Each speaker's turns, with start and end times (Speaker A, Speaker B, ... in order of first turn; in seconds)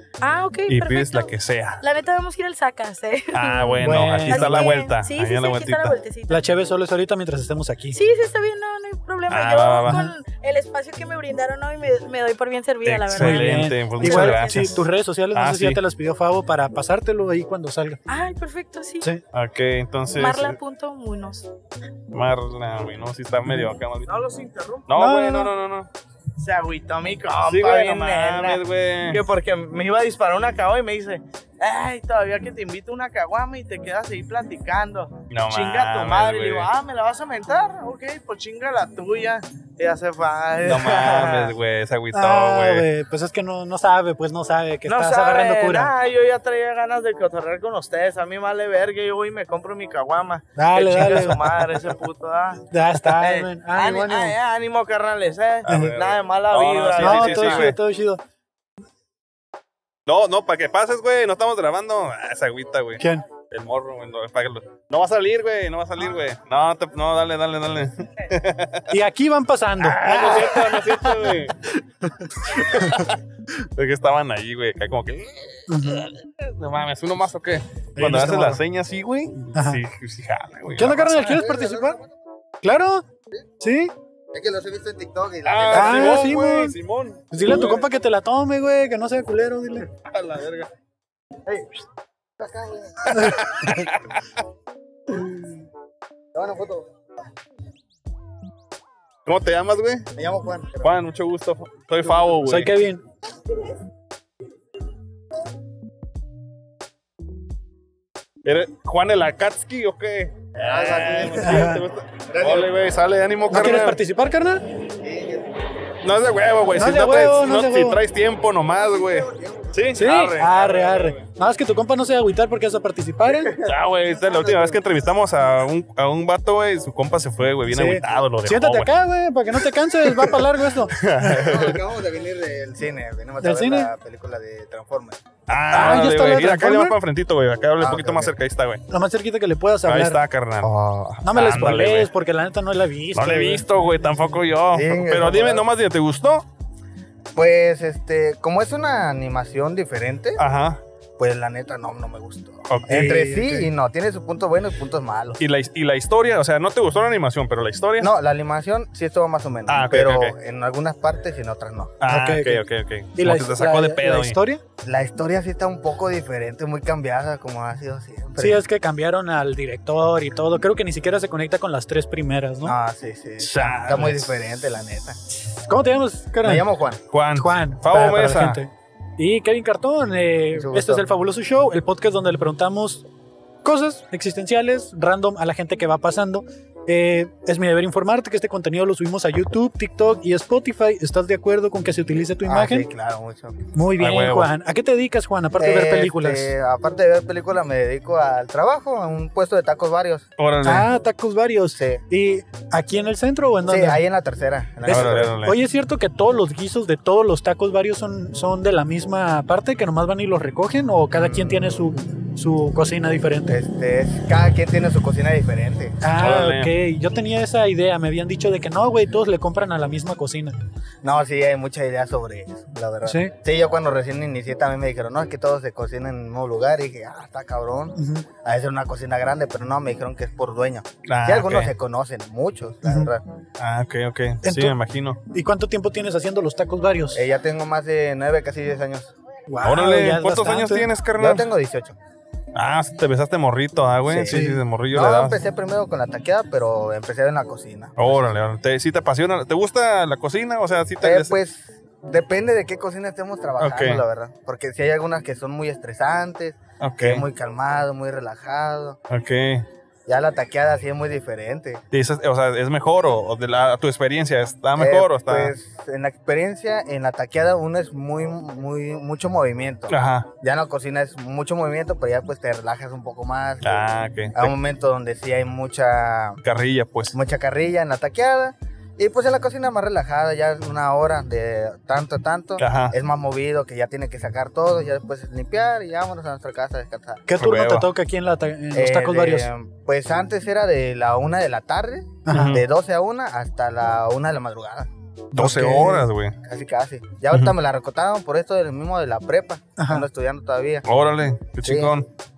Speaker A: 0.2-6.4, 7.9-14.7, 18.1-19.1, 20.1-21.5
Speaker B: 0.7-1.8, 3.3-6.0, 9.3-10.0, 12.8-15.8, 19.3-20.6, 22.1-24.1, 24.9-25.9, 27.4-29.2, 35.3-36.7, 40.6-42.9, 55.6-57.8, 60.1-68.9, 69.8-71.6, 72.4-73.2, 73.8-81.3, 85.4-87.8, 90.0-90.7, 93.1-94.2, 99.2-100.1, 100.8-102.7, 108.4-114.0, 116.0-121.1, 123.6-128.9, 130.0-131.8, 135.5-138.8, 139.8-140.7, 141.2-142.1, 143.1-146.4, 150.4-150.8, 152.7-153.2, 155.4-158.1, 159.7-160.3, 162.0-164.3, 173.4-174.4, 177.1-178.6, 194.0-194.5, 200.4-200.9, 204.8-205.6, 216.2-216.7, 231.1-231.7, 233.6-235.2, 239.6-241.5, 242.5-245.4, 248.0-251.3, 253.6-254.0, 256.8-257.2, 259.1-259.6, 261.9-265.5, 269.9-270.3, 273.6-274.5, 276.4-277.1, 282.6-282.9, 287.4-287.9, 292.3-292.6, 295.3-296.4, 300.9-302.1
Speaker C: 3.8-4.8, 6.3-8.0, 9.8-10.1, 13.1-18.0, 25.0-25.5, 42.1-45.9, 50.6-51.6, 52.7-54.3, 55.7-56.0, 57.0-58.2, 68.9-73.1, 75.7-76.1, 78.0-78.6, 79.5-79.8, 80.8-82.0, 82.6-83.0, 83.6-83.9, 85.7-86.8, 87.3-89.9, 93.2-93.5, 102.4-103.0, 111.3-111.8, 113.5-114.6, 116.8-118.0, 119.9-123.5, 127.7-131.5, 133.4-133.9, 135.7-137.0, 138.9-140.2, 141.2-143.6, 152.8-153.7, 162.1-162.6, 163.1-164.6, 168.4-172.7, 175.3-176.7, 177.3-183.1, 183.6-192.9, 193.7-196.5, 200.6-204.0, 204.8-213.6, 216.0-220.6, 223.0-223.3, 227.9-228.3, 232.8-233.1, 234.4-234.8, 235.3-237.2, 239.5-240.9, 244.3-244.6, 287.3-289.5, 292.2-292.6, 295.3-296.1, 299.8-300.1
Speaker D: 24.1-25.1, 26.4-41.5, 44.9-57.7
Speaker E: 81.3-82.0, 84.3-86.4, 92.4-93.7, 96.3-96.9, 100.2-101.0, 110.5-111.8, 112.3-112.7, 115.0-115.5, 118.8-119.7, 123.3-124.8, 131.2-135.2, 137.8-138.3, 140.6-141.2, 144.7-145.6, 147.3-150.4, 151.2-155.4, 158.0-161.9, 164.8-168.6, 172.6-175.2, 176.4-177.0, 180.5-181.0, 192.4-193.6, 195.6-200.3, 201.7-202.0, 203.7-205.3, 211.2-211.9, 213.5-216.0, 221.0-233.2, 237.1-239.1, 241.2-241.9, 244.1-248.3, 251.0-259.0, 260.1-261.8, 264.8-276.4, 277.1-287.2, 288.7-294.9, 296.4-300.9, 301.6-301.9